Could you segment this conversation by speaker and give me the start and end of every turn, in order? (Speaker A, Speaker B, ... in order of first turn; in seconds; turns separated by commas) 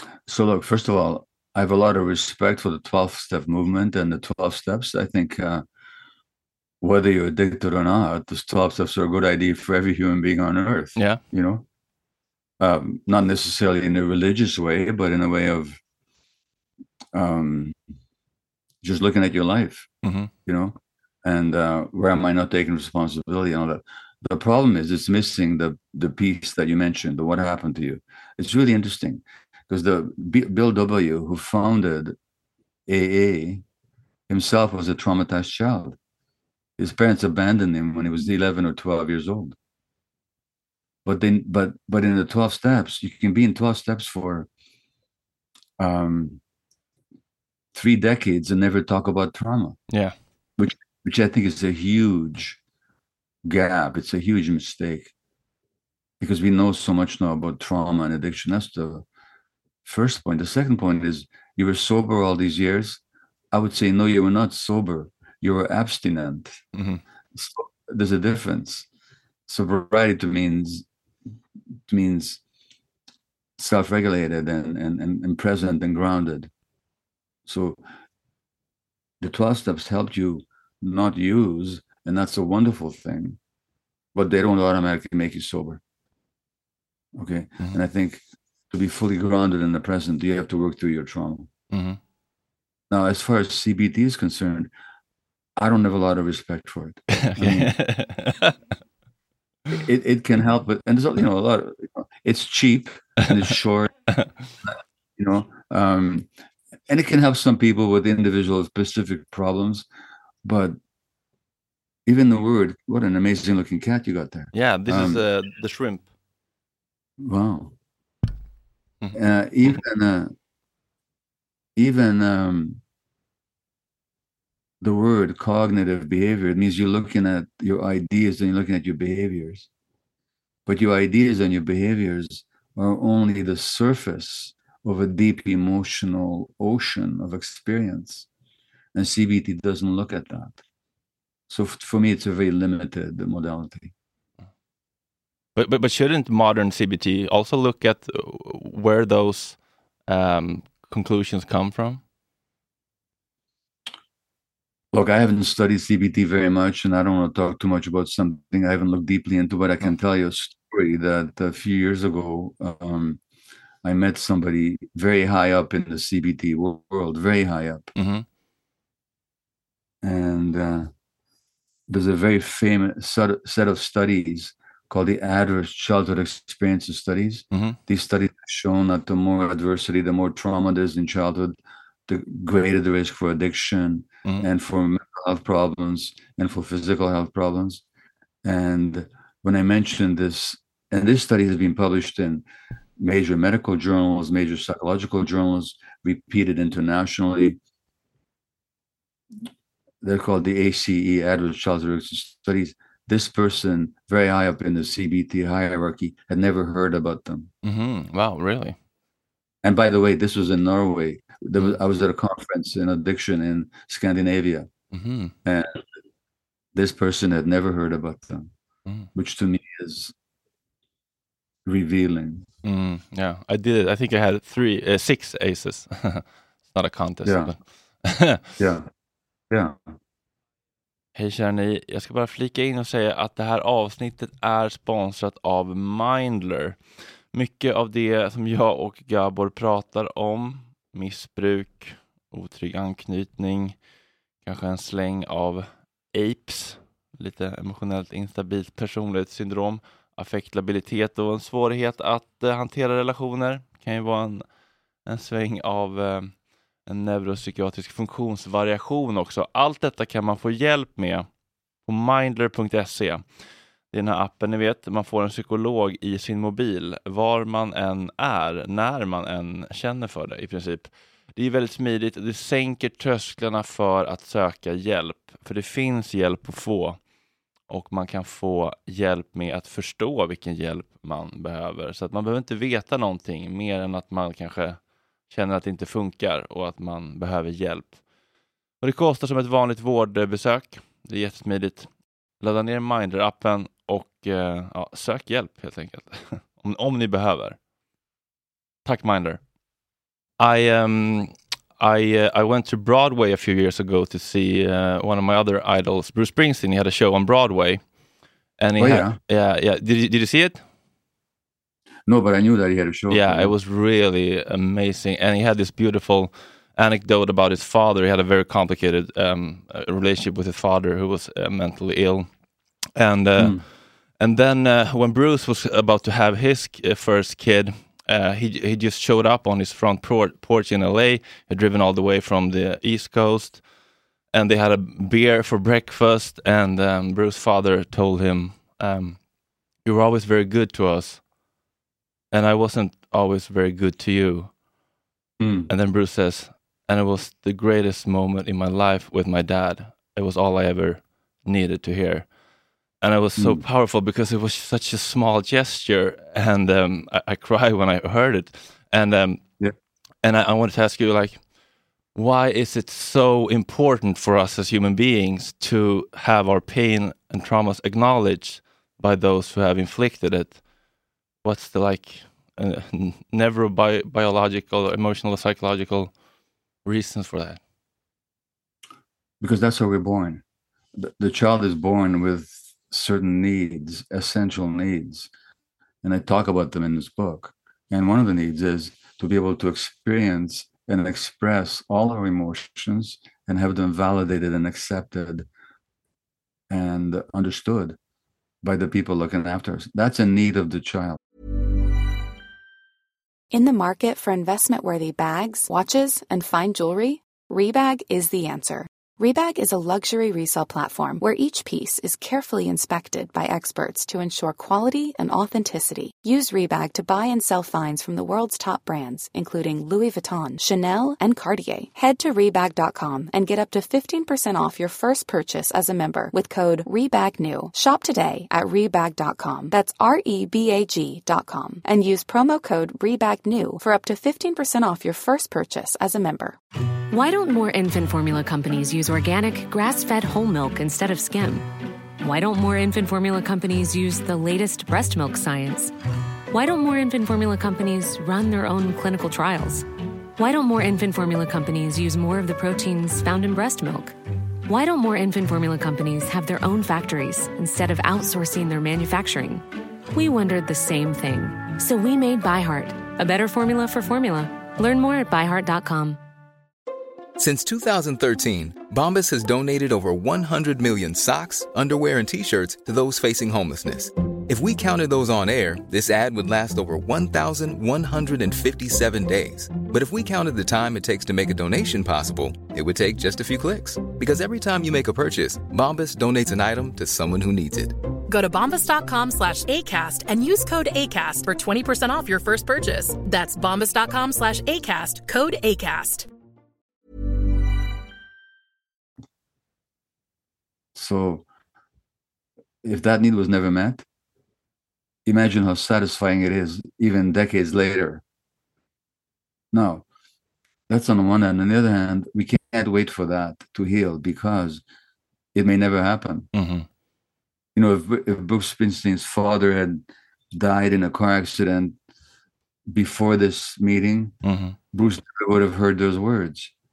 Speaker A: 0.3-5.6, Speaker A: 6.8-11.7, Speaker A: 12.6-15.8, Speaker A: 17.1-17.8, Speaker A: 18.8-19.9, Speaker B: 20.0-20.3, Speaker A: 20.5-32.2, Speaker A: 32.9-33.6, Speaker A: 34.3-36.0, Speaker A: 36.8-39.6, Speaker A: 41.0-44.5, Speaker A: 45.8-46.4, Speaker A: 47.7-49.8, Speaker A: 50.6-52.6, Speaker A: 53.4-55.1, Speaker A: 56.2-59.0, Speaker A: 59.9-63.0, Speaker A: 63.5-66.6, Speaker B: 66.8-67.0, Speaker A: 67.3-68.9, Speaker A: 69.5-70.9, Speaker A: 71.9-72.4, Speaker A: 73.6-76.5, Speaker A: 77.5-77.8, Speaker A: 79.2-83.4, Speaker A: 84.2-85.8, Speaker A: 87.2-91.5, Speaker B: 91.7-92.0, Speaker A: 92.9-94.7, Speaker A: 95.6-97.8, Speaker B: 97.1-98.5, Speaker A: 99.7-103.9, Speaker A: 105.2-106.3, Speaker A: 106.9-109.9, Speaker A: 110.4-110.8, Speaker A: 112.1-115.2, Speaker B: 114.5-116.1, Speaker A: 117.2-117.8, Speaker A: 119.1-120.3, Speaker A: 121.8-122.8, Speaker A: 124.8-129.7, Speaker A: 130.7-138.3, Speaker A: 138.9-140.6, Speaker A: 141.5-143.9, Speaker B: 145.6-152.0, Speaker A: 154.9-163.2, Speaker A: 163.8-167.9, Speaker B: 168.0-168.2, Speaker A: 170.0-170.9, Speaker A: 171.9-187.8, Speaker B: 177.5-177.8, Speaker A: 188.4-192.5, Speaker A: 193.0-197.6, Speaker A: 200.0-207.5, Speaker B: 207.6-208.8, Speaker A: 209.6-214.7, Speaker B: 214.9-215.3, Speaker A: 215.4-215.8, Speaker A: 216.8-218.5, Speaker A: 219.2-220.1, Speaker A: 221.7-222.5, Speaker B: 222.6-228.4, Speaker A: 227.2-227.5, Speaker A: 228.6-228.9, Speaker A: 229.5-229.9, Speaker B: 231.2-236.8, Speaker B: 237.3-243.8, Speaker B: 244.4-254.4, Speaker B: 255.1-261.3, Speaker B: 261.9-263.3, Speaker B: 263.9-277.0, Speaker B: 277.7-288.0, Speaker B: 288.8-297.6, Speaker B: 298.9-299.4, Speaker B: 300.4-307.8, Speaker B: 308.6-310.6, Speaker A: 308.8-309.2, Speaker A: 312.1-313.5, Speaker B: 313.1-322.3, Speaker B: 323.0-323.6, Speaker A: 323.4-323.6, Speaker B: 324.2-333.6, Speaker B: 334.3-339.2, Speaker B: 339.9-341.2, Speaker B: 342.3-344.5, Speaker A: 345.4-345.7, Speaker B: 345.7-352.3, Speaker B: 353.0-359.4, Speaker A: 353.4-353.6, Speaker B: 360.2-361.4, Speaker B: 362.1-370.6, Speaker B: 371.4-376.1, Speaker B: 376.9-377.6, Speaker A: 379.4-380.4, Speaker A: 381.0-385.3, Speaker A: 386.0-395.5, Speaker A: 396.7-398.0, Speaker A: 398.6-401.2, Speaker C: 403.5-436.6, Speaker D: 437.1-441.7, Speaker D: 442.2-445.9, Speaker D: 446.5-449.9, Speaker D: 450.4-454.1, Speaker D: 454.7-466.2, Speaker E: 467.4-488.0, Speaker F: 488.3-496.3, Speaker A: 500.9-501.5, Speaker A: 502.8-504.1, Speaker A: 505.2-508.2, Speaker A: 509.7-510.1, Speaker A: 510.9-514.8, Speaker A: 515.5-516.5, Speaker B: 516.5-516.9, Speaker A: 517.8-522.0, Speaker A: 522.9-524.3, Speaker B: 524.4-524.8, Speaker A: 524.9-526.7